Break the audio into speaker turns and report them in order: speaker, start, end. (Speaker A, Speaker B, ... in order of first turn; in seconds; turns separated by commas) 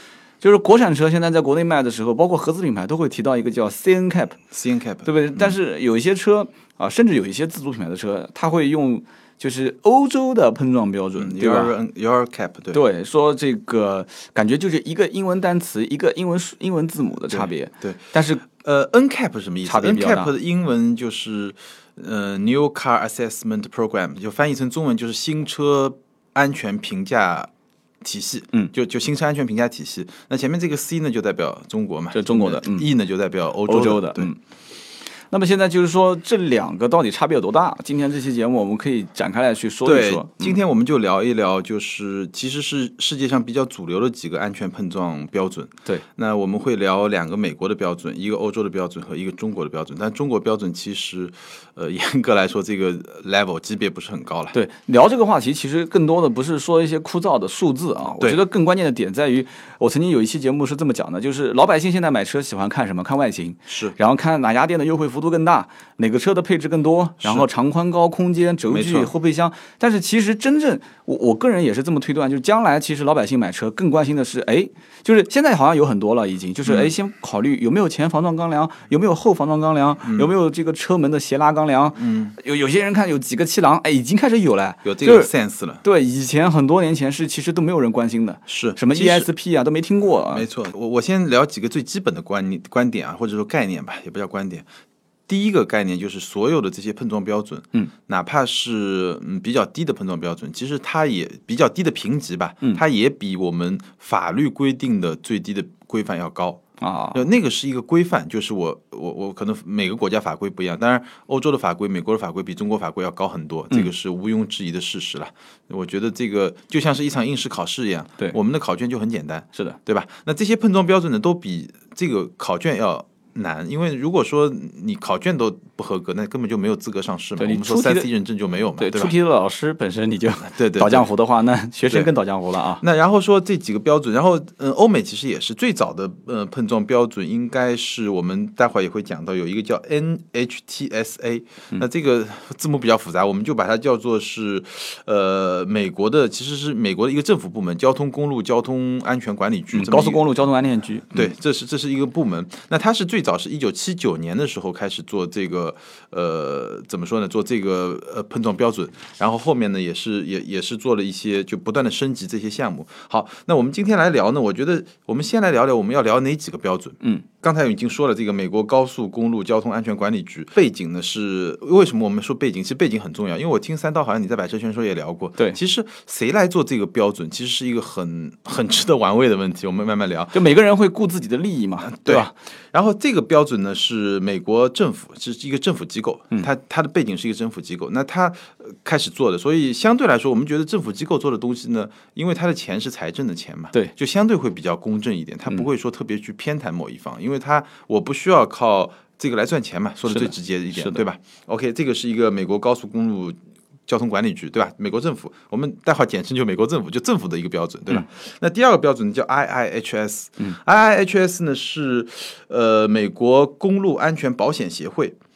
Speaker A: 0.4-4.4, Speaker B: 4.5-5.5, Speaker A: 5.0-11.7, Speaker B: 11.2-12.8, Speaker A: 12.7-18.4, Speaker B: 17.3-27.5, Speaker A: 19.6-20.3, Speaker B: 28.0-34.3, Speaker A: 32.1-32.9, Speaker A: 33.7-34.4, Speaker A: 35.3-40.6, Speaker B: 39.9-54.5, Speaker A: 54.5-85.3, Speaker B: 63.7-64.0, Speaker B: 68.7-69.1, Speaker B: 76.7-76.9, Speaker B: 80.0-80.3, Speaker B: 82.0-82.3, Speaker B: 84.8-85.8, Speaker A: 85.8-90.5, Speaker B: 88.5-89.3, Speaker B: 90.3-94.7, Speaker B: 95.3-106.6, Speaker A: 106.8-107.2, Speaker B: 107.1-129.1, Speaker A: 127.4-128.1, Speaker A: 128.8-132.8, Speaker B: 130.5-131.1, Speaker B: 132.8-150.2, Speaker A: 149.7-151.3, Speaker B: 151.1-180.3, Speaker A: 180.3-182.3, Speaker B: 181.8-215.2, Speaker A: 200.1-201.0